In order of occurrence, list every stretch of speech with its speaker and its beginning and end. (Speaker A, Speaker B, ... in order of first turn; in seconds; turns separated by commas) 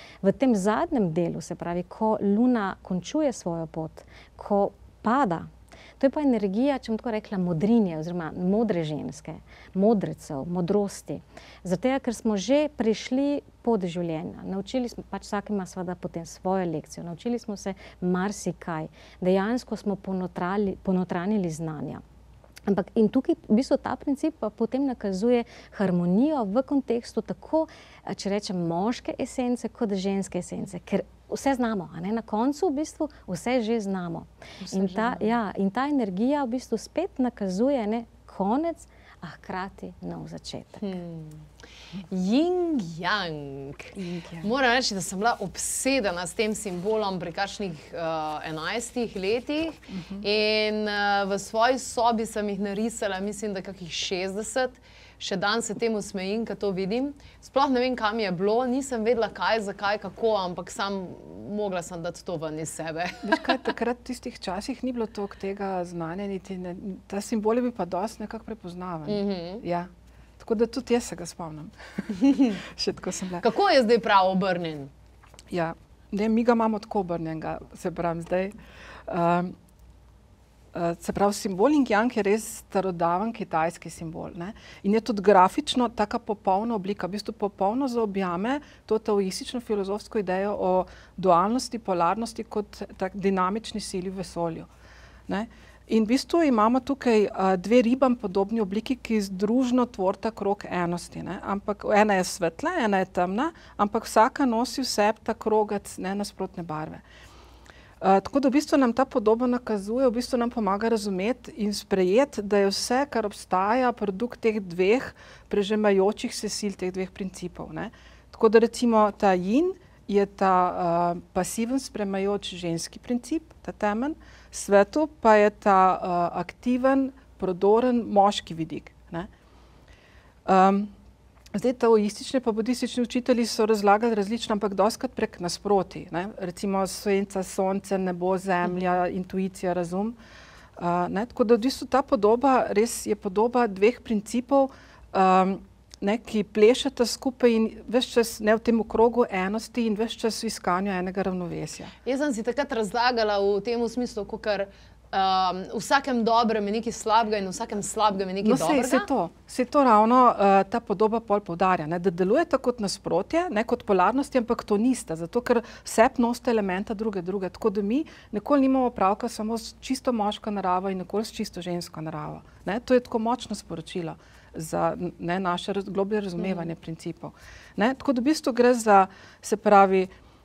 Speaker A: 0.2-22.0, Speaker A: 22.7-40.9, Speaker B: 34.6-35.3, Speaker B: 40.8-41.5, Speaker B: 42.1-63.7, Speaker C: 44.0-44.5, Speaker C: 49.9-50.2, Speaker C: 63.2-73.4, Speaker B: 69.0-69.6, Speaker B: 73.4-74.9, Speaker C: 75.5-78.5, Speaker C: 79.1-79.5, Speaker C: 80.7-94.7, Speaker C: 95.3-107.0, Speaker C: 108.0-129.3, Speaker C: 130.4-130.9, Speaker C: 131.5-140.1, Speaker C: 140.8-151.9, Speaker B: 152.0-159.1, Speaker C: 158.4-180.1, Speaker B: 176.4-176.7